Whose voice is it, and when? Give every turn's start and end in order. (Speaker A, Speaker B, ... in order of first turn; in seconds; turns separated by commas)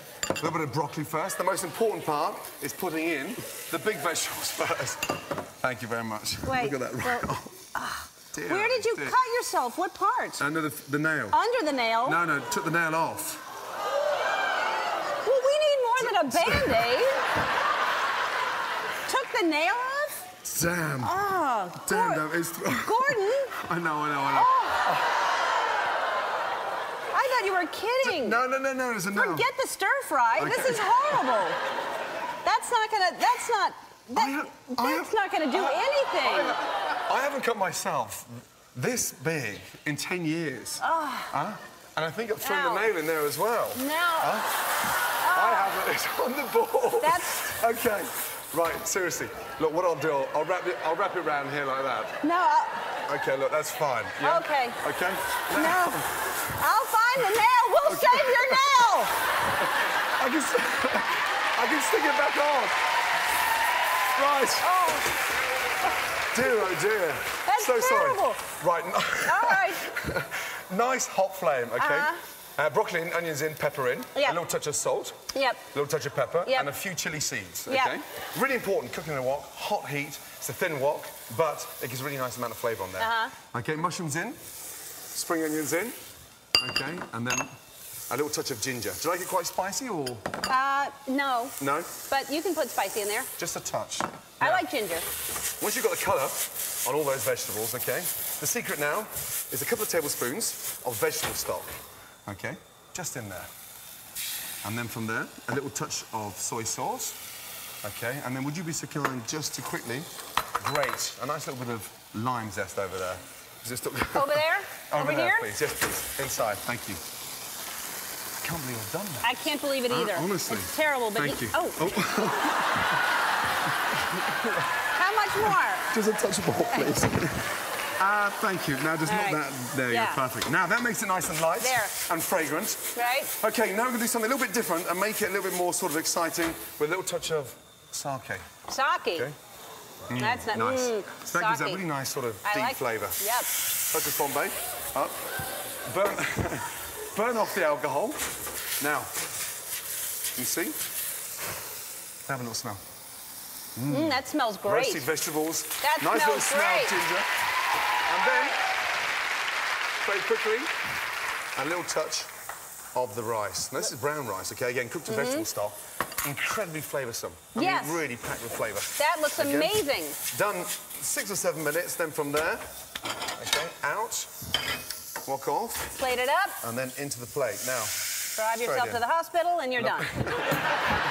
Speaker A: 0.3-7.6, Speaker B: 6.5-10.4, Speaker A: 8.3-9.2, Speaker A: 10.4-11.4, Speaker B: 11.3-12.2, Speaker A: 12.0-13.4, Speaker B: 15.2-17.3, Speaker A: 16.0-16.9, Speaker B: 19.1-20.3, Speaker A: 20.4-21.2, Speaker B: 21.0-23.5, Speaker A: 21.8-25.1, Speaker B: 24.3-25.0, Speaker B: 27.1-28.4, Speaker A: 28.0-29.5, Speaker B: 29.1-31.6, Speaker A: 30.4-31.4, Speaker B: 32.4-36.6, Speaker A: 34.1-44.6, Speaker B: 40.8-41.3, Speaker B: 42.4-42.9, Speaker B: 43.8-44.4, Speaker B: 45.2-45.7, Speaker A: 45.3-52.2, Speaker B: 47.0-47.5, Speaker B: 52.2-52.8, Speaker A: 53.1-56.6, Speaker B: 54.2-54.8, Speaker B: 55.5-59.2, Speaker A: 57.2-58.8, Speaker A: 60.2-62.8, Speaker A: 64.2-64.7, Speaker B: 64.6-65.1, Speaker A: 66.3-75.2, Speaker B: 67.5-68.4, Speaker B: 69.2-69.9, Speaker B: 71.8-72.2, Speaker B: 74.2-74.4, Speaker B: 75.3-75.6, Speaker A: 75.7-84.4, Speaker B: 77.7-78.0, Speaker B: 83.0-83.4, Speaker A: 85.1-86.0, Speaker A: 86.6-87.5, Speaker A: 88.1-90.3, Speaker B: 90.5-91.6, Speaker A: 91.6-91.9, Speaker B: 92.1-93.3, Speaker A: 93.4-94.7, Speaker B: 94.4-95.0, Speaker A: 95.6-103.5, Speaker A: 104.6-107.2, Speaker A: 107.8-110.1, Speaker A: 110.6-117.0, Speaker B: 114.1-115.5, Speaker A: 118.4-119.3, Speaker B: 119.2-122.0, Speaker A: 119.9-123.0, Speaker B: 124.9-125.9, Speaker A: 125.5-138.5, Speaker B: 129.1-130.2, Speaker B: 131.6-131.9, Speaker B: 133.0-133.3, Speaker B: 138.7-139.3, Speaker A: 140.1-143.2, Speaker B: 140.1-141.8, Speaker B: 142.4-143.5, Speaker A: 143.9-145.2, Speaker A: 145.9-148.3, Speaker A: 148.8-149.1, Speaker A: 150.3-150.8, Speaker A: 152.3-152.8, Speaker A: 153.8-157.3, Speaker B: 153.9-155.1, Speaker B: 155.8-156.9, Speaker A: 158.1-158.6, Speaker B: 158.2-158.6, Speaker A: 160.0-160.7, Speaker A: 161.6-162.3, Speaker A: 162.9-172.7, Speaker B: 165.1-165.5, Speaker B: 167.6-168.0, Speaker B: 169.0-170.2, Speaker A: 173.3-174.3, Speaker A: 175.2-176.0, Speaker B: 175.9-176.6, Speaker A: 176.6-178.0, Speaker B: 178.4-180.4, Speaker A: 178.6-179.0, Speaker A: 179.8-180.7